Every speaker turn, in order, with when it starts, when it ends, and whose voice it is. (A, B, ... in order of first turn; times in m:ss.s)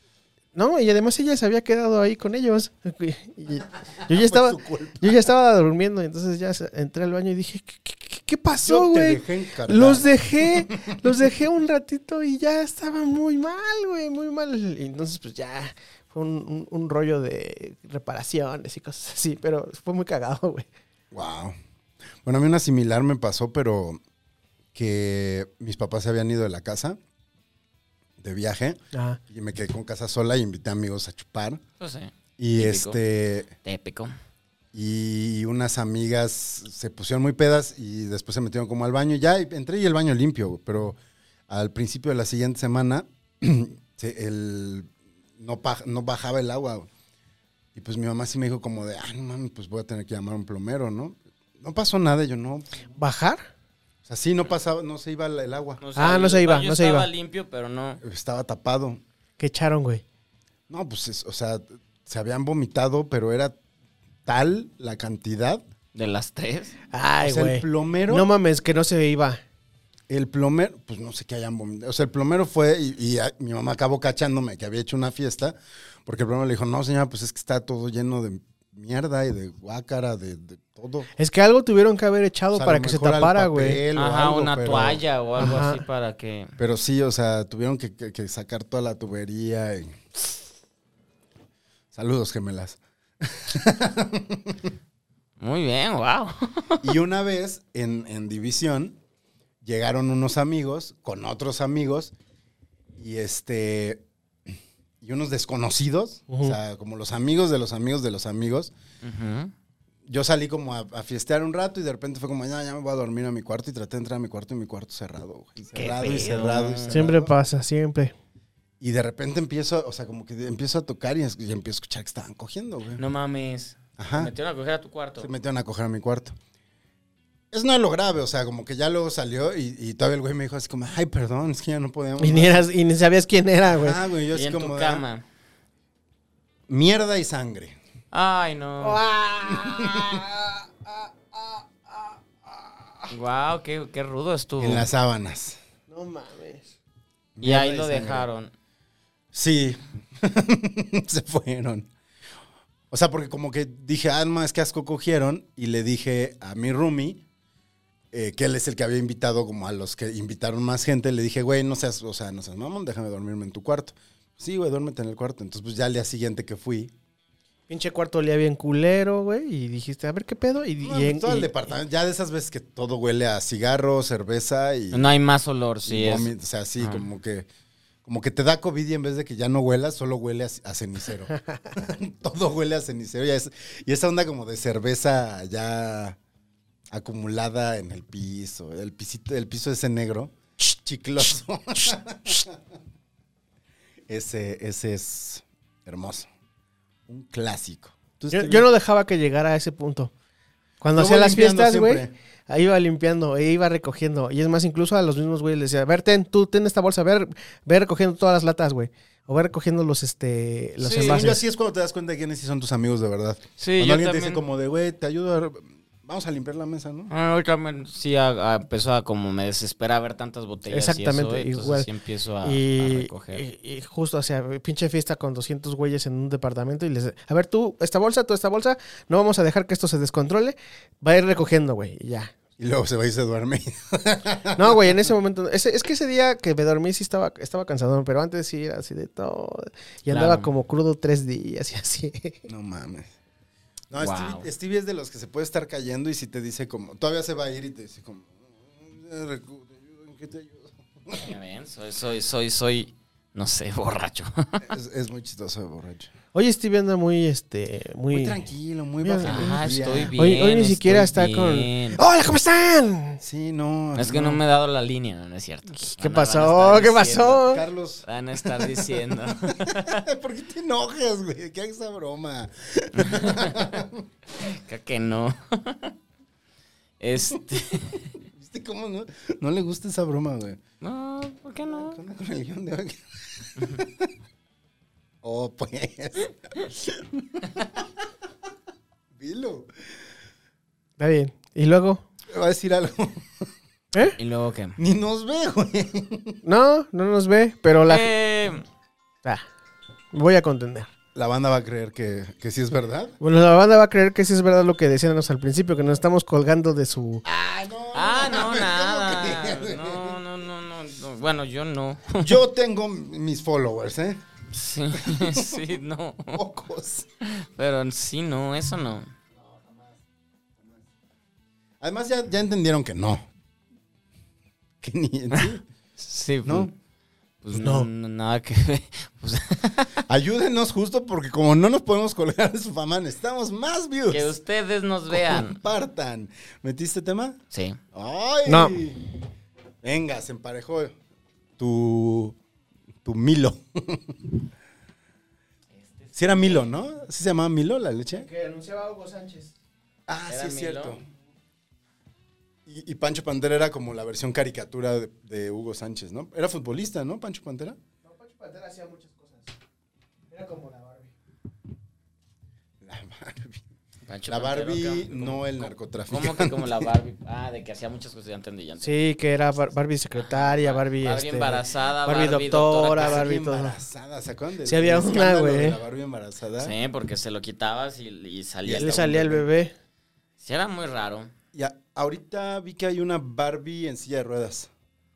0:00.6-0:20.7 A
0:04.1-0:05.2 B
0:08.6-0:11.1 B
0:21.1-0:21.6 B
0:22.2-0:24.0 B
0:24.7-0:27.0 B
0:28.2-0:31.6 B
0:28.9-0:29.2 A
0:31.8-0:33.0 C
0:32.4-0:33.5 B
0:33.6-0:34.1 C
0:34.7-0:41.0 B
0:41.5-0:46.9 B
0:47.8-0:52.8 B
0:53.0-0:53.5 A
0:54.0-0:55.8 B
0:55.8-0:58.0 C
0:56.0-0:57.1 A
0:58.0-0:59.0 B
0:59.4-1:00.0 A
1:00.7-1:03.5 B
1:04.3-1:05.6 B
1:06.0-1:06.8 C
1:06.9-1:09.4 A
1:07.2-1:08.3 B
1:10.1-1:21.1 B
1:21.2-1:23.8 A
1:22.5-1:25.0 B
1:24.0-1:26.5 C
1:25.4-1:25.8 A
1:26.6-1:30.0 B
1:31.9-1:34.7 B
1:35.4-1:36.9 C
1:36.8-1:39.0 B
1:39.6-1:42.1 B
1:43.0-1:48.7 B
1:46.3-1:46.6 A
1:49.0-1:49.5 C
1:50.1-1:57.3 B
1:55.8-1:57.0 C
1:55.8-1:58.1 A
1:58.8-2:03.0 B
2:03.0-2:05.3 C
2:04.0-2:04.3 B
2:05.2-2:06.4 B
2:07.5-2:12.6 B
2:12.2-2:14.0 A
2:13.7-2:15.0 B
2:14.3-2:15.2 C
2:16.7-2:17.8 B
2:18.1-2:19.0 C
2:18.8-2:23.1 A
2:19.5-2:20.2 B
2:23.1-2:24.9 C
2:24.6-2:25.6 B
2:25.9-2:26.7 A
2:27.4-2:28.3 B
2:27.4-2:28.5 C
2:29.3-2:31.9 B
2:32.9-2:37.2 B
2:38.1-2:46.9 B
2:47.7-2:51.7 A
2:50.8-2:55.2 B
2:54.9-2:57.0 C
2:55.8-2:57.5 B
2:58.0-3:06.2 B
3:06.9-3:12.6 B
3:14.1-3:16.3 B
3:17.1-3:18.7 B
3:18.3-3:20.1 A
3:20.8-3:31.4 A
3:21.0-3:22.1 B
3:30.8-3:31.2 C
3:31.0-3:37.1 B
3:33.6-3:34.4 C
3:37.1-3:43.4 C
3:40.7-3:41.9 A
3:42.4-3:52.4 A
3:52.6-3:55.1 B
3:54.6-4:02.4 A
4:00.1-4:00.5 C
4:02.5-4:03.1 B
4:03.9-4:11.3 B
4:04.0-4:04.5 C
4:11.2-4:14.6 C
4:14.6-4:16.1 B
4:16.3-4:18.4 A
4:18.1-4:20.2 B
4:19.0-4:19.6 A
4:19.2-4:22.0 C
4:20.2-4:23.2 A
4:23.2-4:24.4 B
4:24.0-4:27.5 C
4:25.9-4:27.6 A
4:27.4-4:34.1 B
4:28.1-4:30.0 C
4:33.0-4:33.8 C
4:34.4-4:35.9 C
4:37.0-4:38.1 C
4:38.3-4:40.6 B
4:40.8-4:42.0 C
4:41.7-4:44.1 B
4:45.2-4:47.8 B
4:49.2-4:49.7 B
4:51.0-4:52.0 A
4:52.3-4:53.5 B
4:54.2-4:54.8 C
4:54.8-4:56.4 B
4:56.4-4:58.1 A
4:57.9-4:58.6 C
5:00.1-5:00.9 A
5:01.2-5:03.2 B
5:03.2-5:07.2 A
5:07.2-5:10.2 B
5:07.9-5:12.4 C
5:12.2-5:14.2 B
5:14.5-5:16.4 C
5:14.9-5:15.8 B
5:16.3-5:17.1 B
5:17.2-5:19.1 C
5:19.4-5:20.0 B
5:21.8-5:23.3 B
5:24.8-5:25.6 B
5:25.3-5:26.7 C
5:26.4-5:26.7 B
5:27.4-5:30.0 C
5:27.6-5:27.9 A
5:30.1-5:34.4 B
5:34.1-5:35.6 C
5:35.1-5:37.4 B
5:37.5-5:37.8 C
5:37.9-5:39.0 B
5:38.5-5:38.8 A
5:39.8-5:41.0 B
5:41.6-5:42.4 B
5:43.0-5:44.4 B
5:45.8-5:46.6 C
5:46.2-5:48.3 B
5:48.2-5:49.5 A
5:50.1-5:51.0 B
5:50.3-5:51.0 C
5:52.7-5:57.8 B
5:58.0-5:59.5 A
6:00.3-6:01.1 A
6:02.8-6:03.6 B
6:04.1-6:09.0 C
6:04.3-6:06.9 B
6:08.8-6:13.8 A
6:10.2-6:13.2 C
6:12.9-6:16.7 B
6:14.7-6:15.8 A
6:16.6-6:19.4 C
6:18.6-6:19.4 B
6:18.8-6:19.7 A
6:20.4-6:21.3 C
6:21.5-6:24.7 B